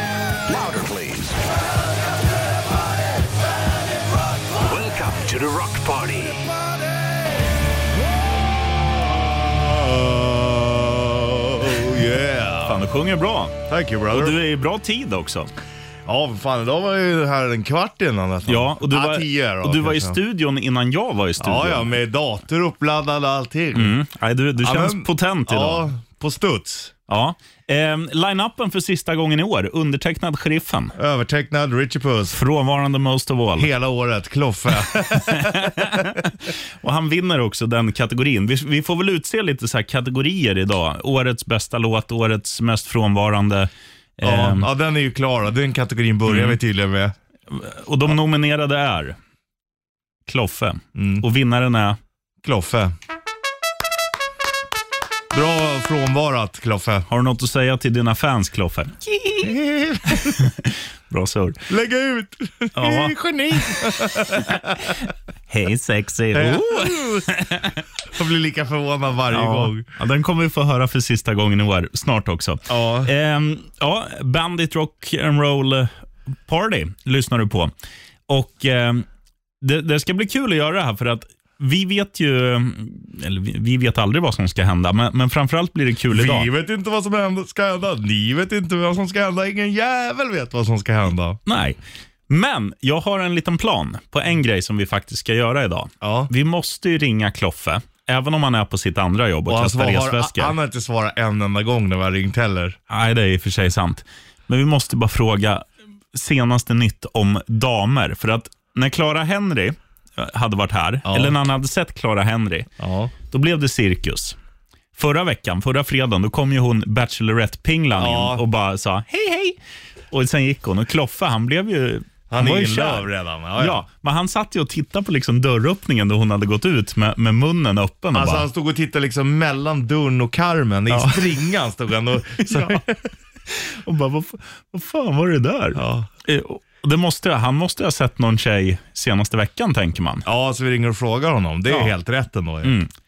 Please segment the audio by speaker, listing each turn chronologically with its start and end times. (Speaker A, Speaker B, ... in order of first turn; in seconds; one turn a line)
Speaker A: 0.5-1.4
Speaker A: 4.6-6.5
Speaker B: 9.5-12.8
Speaker C: 12.7-15.5
Speaker B: 13.7-14.4
Speaker B: 16.1-20.2
Speaker C: 18.5-21.9
Speaker B: 21.4-24.0
Speaker C: 23.8-25.9
Speaker B: 24.6-26.9
Speaker C: 27.1-30.9
Speaker B: 31.0-32.4
Speaker C: 32.3-33.7
Speaker B: 33.6-36.1
Speaker C: 35.3-44.7
Speaker B: 44.2-47.1
Speaker C: 46.3-46.6
Speaker C: 47.5-49.2
Speaker C: 50.3-52.0
Speaker B: 51.0-51.2
Speaker B: 52.4-52.9
Speaker B: 55.3-57.1
Speaker C: 57.1-61.6
Speaker B: 59.4-60.4
Speaker B: 61.7-65.0
Speaker C: 62.8-67.8
Speaker B: 66.3-67.3
Speaker B: 68.1-69.9
Speaker C: 69.3-75.9
Speaker B: 72.7-73.1
Speaker C: 76.5-77.7
Speaker C: 78.3-79.1
Speaker C: 79.6-86.5
Speaker B: 86.1-91.4
Speaker C: 91.5-91.8
Speaker C: 92.3-100.6
Speaker B: 96.0-96.3
Speaker B: 99.5-102.8
Speaker C: 102.9-112.7
Speaker B: 111.1-111.4
Speaker B: 112.8-113.1
Speaker C: 113.3-114.4
Speaker C: 115.0-119.6
Speaker B: 118.0-118.4
Speaker C: 120.1-128.5
Speaker B: 122.3-123.8
Speaker B: 128.1-133.0
Speaker C: 130.9-131.4
Speaker C: 132.4-132.8
Speaker C: 133.5-140.2
Speaker B: 135.8-136.1
Speaker B: 140.2-142.7
Speaker C: 141.7-141.9
Speaker C: 142.6-142.9